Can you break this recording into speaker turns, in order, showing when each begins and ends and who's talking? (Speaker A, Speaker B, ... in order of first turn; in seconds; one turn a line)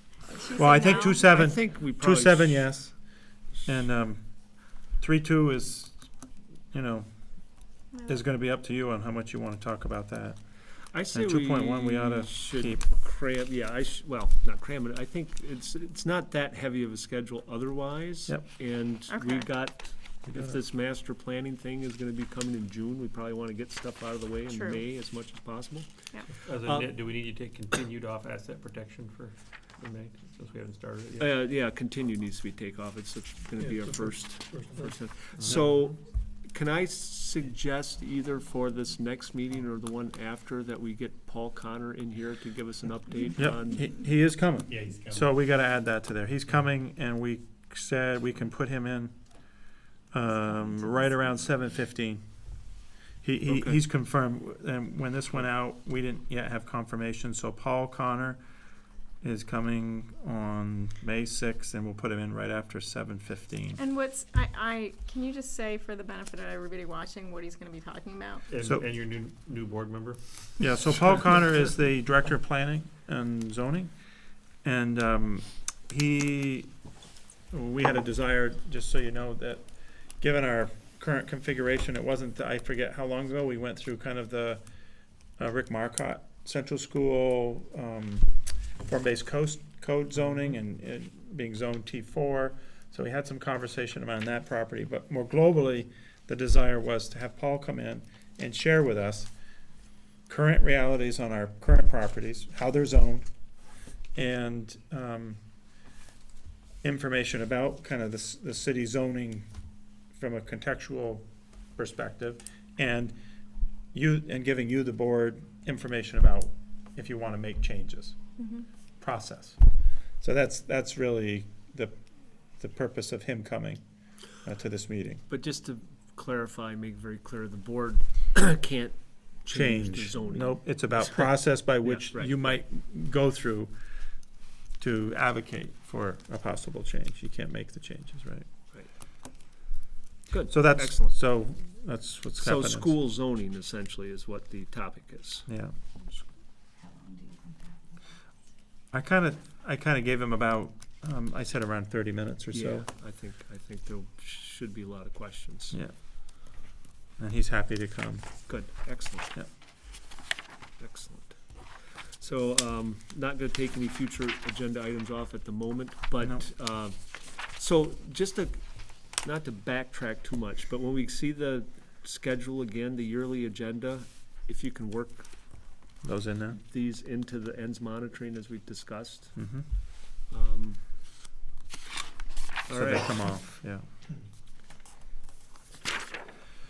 Speaker A: 0.3-1.3
Speaker B: 0.6-12.8
Speaker C: 1.1-2.9
Speaker A: 7.9-8.2
Speaker C: 10.9-26.9
Speaker A: 19.1-19.5
Speaker B: 20.3-20.6
Speaker A: 24.5-24.8
Speaker D: 26.4-31.3
Speaker C: 31.2-43.8
Speaker D: 33.6-35.6
Speaker B: 43.4-52.2
Speaker D: 44.7-45.3
Speaker B: 53.2-58.4
Speaker C: 53.5-53.8
Speaker B: 59.2-63.8
Speaker A: 63.8-68.5
Speaker D: 68.5-70.7
Speaker B: 68.6-68.9
Speaker B: 70.6-73.9
Speaker B: 74.6-76.7
Speaker B: 77.5-79.7
Speaker B: 80.2-84.6
Speaker B: 85.4-88.3
Speaker B: 88.9-99.3
Speaker B: 100.3-103.3
Speaker B: 104.2-105.4
Speaker B: 106.8-109.5
Speaker B: 110.1-113.2
Speaker B: 113.9-118.2
Speaker A: 118.4-118.7
Speaker B: 119.0-119.6
Speaker B: 120.2-122.0
Speaker B: 122.5-125.2
Speaker C: 125.3-132.5
Speaker B: 129.5-133.8
Speaker B: 134.8-138.5
Speaker C: 140.3-141.2
Speaker B: 140.5-142.9
Speaker C: 142.4-145.5
Speaker B: 145.5-145.7
Speaker B: 148.9-152.9
Speaker C: 152.5-155.8
Speaker B: 157.2-158.5
Speaker C: 158.5-159.3
Speaker C: 160.8-175.3
Speaker B: 166.2-166.5
Speaker B: 176.0-176.6
Speaker C: 176.6-179.4
Speaker B: 179.4-179.7
Speaker C: 180.3-180.8
Speaker C: 182.7-183.2
Speaker B: 182.7-183.9